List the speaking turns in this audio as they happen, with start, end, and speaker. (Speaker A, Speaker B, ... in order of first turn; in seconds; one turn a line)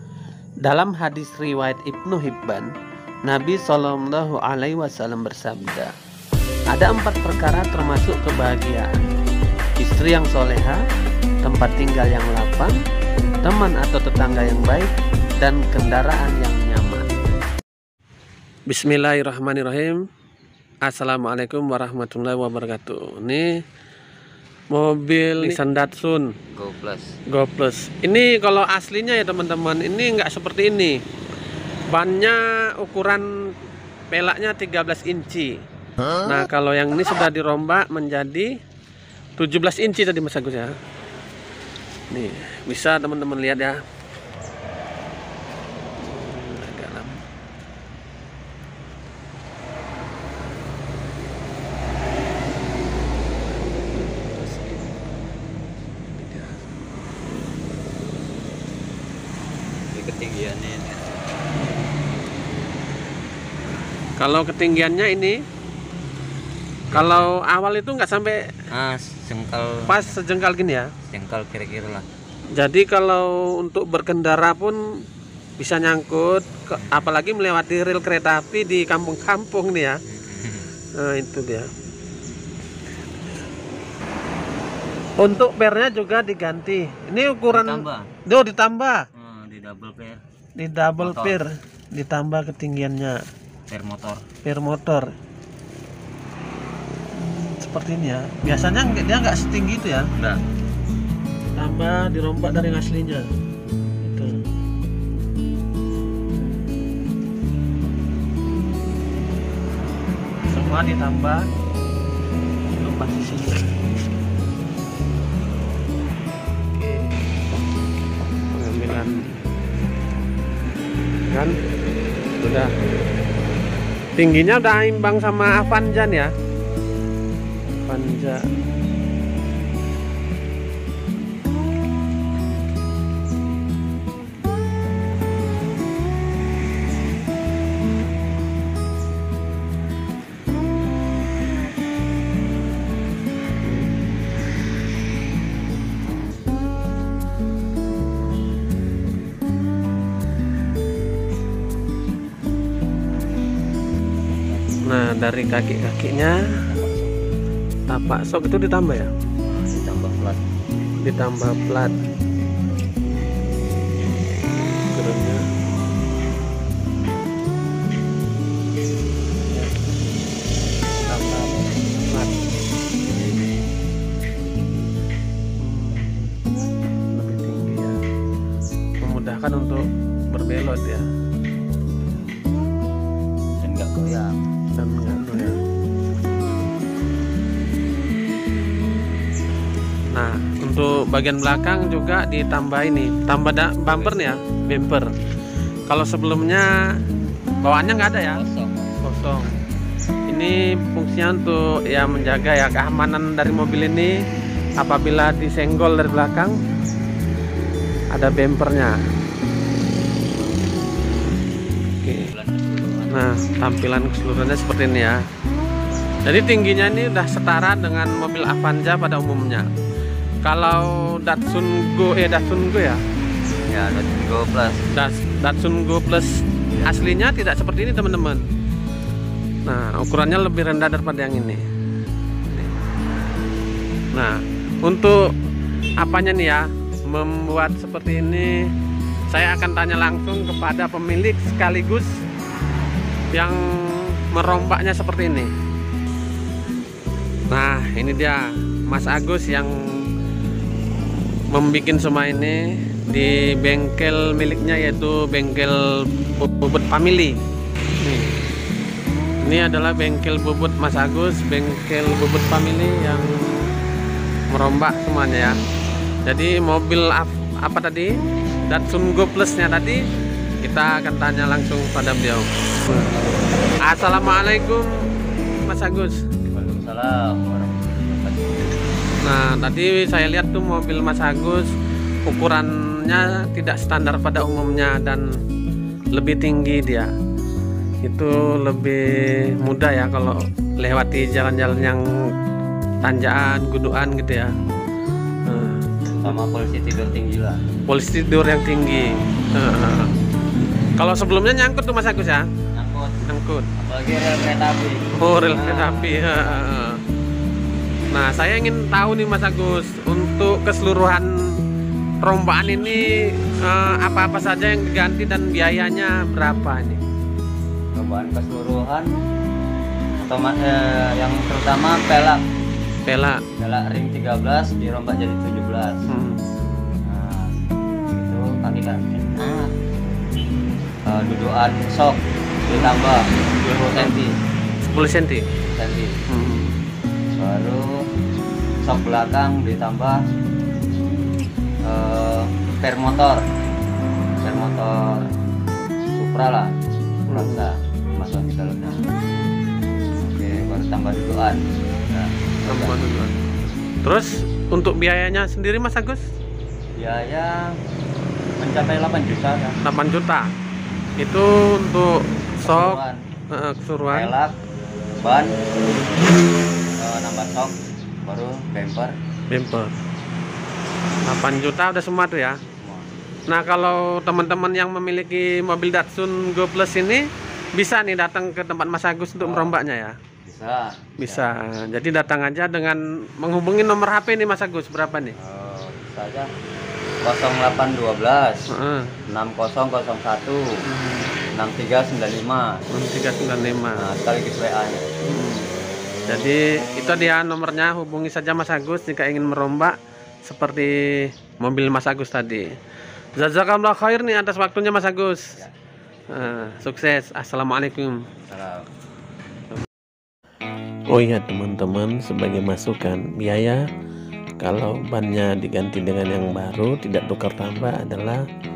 Speaker A: 0.6-2.7
Speaker A: 3.2-5.9
Speaker A: 6.7-9.1
Speaker A: 9.8-10.8
Speaker A: 11.4-12.8
Speaker A: 13.4-17.1
Speaker A: 18.7-20.0
Speaker A: 20.9-23.6
Speaker A: 24.7-26.4
Speaker B: 26.5-27.1
Speaker A: 27.3-31.0
Speaker A: 31.9-33.3
Speaker A: 34.1-35.6
Speaker A: 36.1-38.5
Speaker A: 39.4-40.8
Speaker A: 42.1-43.8
Speaker A: 46.1-47.2
Speaker A: 53.8-54.4
Speaker A: 56.2-56.5
Speaker B: 59.9-61.2
Speaker A: 64.2-65.4
Speaker B: 66.9-67.3
Speaker A: 66.9-68.6
Speaker B: 68.7-70.2
Speaker A: 69.9-70.9
Speaker B: 71.1-72.0
Speaker A: 72.6-74.8
Speaker A: 75.6-80.0
Speaker B: 80.1-80.7
Speaker A: 81.0-81.7
Speaker A: 85.2-89.1
Speaker B: 87.5-88.1
Speaker B: 89.1-90.2
Speaker A: 90.6-93.2
Speaker B: 91.0-91.4
Speaker B: 93.7-94.2
Speaker A: 94.4-95.1
Speaker A: 97.2-100.1
Speaker B: 100.2-100.4
Speaker A: 101.6-103.3
Speaker A: 104.0-104.5
Speaker A: 106.4-106.9
Speaker A: 110.5-111.5
Speaker A: 112.8-113.7
Speaker A: 116.7-117.1
Speaker A: 118.5-119.3
Speaker A: 122.4-122.7
Speaker A: 124.2-126.3
Speaker A: 127.7-128.5
Speaker B: 154.2-154.8
Speaker A: 154.9-156.6
Speaker B: 156.5-157.3
Speaker A: 157.9-159.1
Speaker B: 159.7-160.4
Speaker A: 161.0-162.0
Speaker A: 164.8-165.5
Speaker A: 169.5-169.8
Speaker A: 171.0-172.4
Speaker A: 175.6-176.4
Speaker A: 177.1-178.0
Speaker A: 179.0-181.1
Speaker B: 182.0-182.4
Speaker B: 183.6-184.4
Speaker A: 184.8-185.6
Speaker A: 190.1-195.1
Speaker B: 193.9-194.3
Speaker A: 195.9-196.7
Speaker A: 197.6-198.4
Speaker B: 198.2-199.0
Speaker A: 199.0-199.5
Speaker A: 200.3-204.2
Speaker A: 204.8-206.6
Speaker A: 208.1-209.0
Speaker A: 212.0-212.3
Speaker B: 212.1-213.3
Speaker A: 213.1-215.2
Speaker A: 216.2-219.7
Speaker A: 220.4-223.0
Speaker B: 223.7-224.8
Speaker A: 224.9-228.4
Speaker A: 229.7-231.6
Speaker A: 234.1-235.3
Speaker A: 236.0-238.7
Speaker A: 239.3-242.2
Speaker A: 243.3-245.5
Speaker A: 247.5-249.7
Speaker A: 251.5-257.4
Speaker A: 258.0-258.4
Speaker A: 259.4-263.7
Speaker A: 264.5-265.6
Speaker A: 266.2-268.1
Speaker A: 268.7-270.0
Speaker A: 270.6-273.2
Speaker A: 273.9-274.9
Speaker A: 275.7-276.2
Speaker B: 276.5-278.8
Speaker A: 279.2-281.7
Speaker A: 282.3-285.3
Speaker A: 286.1-287.1
Speaker A: 288.0-292.0
Speaker A: 293.0-294.6
Speaker A: 295.5-296.4
Speaker B: 296.1-297.6
Speaker A: 297.9-300.1
Speaker A: 301.0-302.5
Speaker B: 302.8-306.7
Speaker A: 303.3-303.7
Speaker A: 305.2-307.0
Speaker A: 308.1-311.6
Speaker A: 312.2-317.0
Speaker B: 318.0-319.1
Speaker B: 320.2-322.4
Speaker A: 323.1-323.4
Speaker B: 323.6-326.1
Speaker A: 326.1-326.4
Speaker B: 327.1-327.5
Speaker B: 328.1-329.7
Speaker B: 331.1-334.3
Speaker A: 332.7-334.2
Speaker A: 334.9-335.5
Speaker B: 335.7-336.2
Speaker A: 336.3-336.8
Speaker B: 337.4-338.0
Speaker B: 338.8-340.2
Speaker B: 341.8-343.4
Speaker B: 344.4-345.3
Speaker B: 346.2-346.7
Speaker A: 347.3-347.7
Speaker B: 347.3-349.1
Speaker B: 350.3-353.0
Speaker A: 352.7-353.4
Speaker A: 354.0-356.2
Speaker B: 357.0-357.8
Speaker B: 358.6-359.8
Speaker A: 359.8-360.5
Speaker A: 361.2-364.3
Speaker B: 362.6-363.2
Speaker B: 364.1-364.6
Speaker B: 365.2-365.6
Speaker B: 367.0-369.1
Speaker A: 369.5-369.9
Speaker A: 371.2-372.6
Speaker B: 372.8-373.1
Speaker A: 373.5-380.2
Speaker B: 379.4-379.8
Speaker B: 380.4-381.5
Speaker A: 381.2-385.4
Speaker B: 385.4-386.5
Speaker B: 387.2-388.7
Speaker A: 388.7-389.2
Speaker B: 389.3-390.8
Speaker A: 390.9-391.4
Speaker B: 391.5-392.9
Speaker A: 392.9-394.1
Speaker B: 394.0-395.1
Speaker A: 395.2-395.7
Speaker A: 396.3-402.8
Speaker A: 403.4-405.6
Speaker A: 406.3-408.3
Speaker B: 408.5-408.9
Speaker A: 411.1-413.8
Speaker A: 414.6-418.5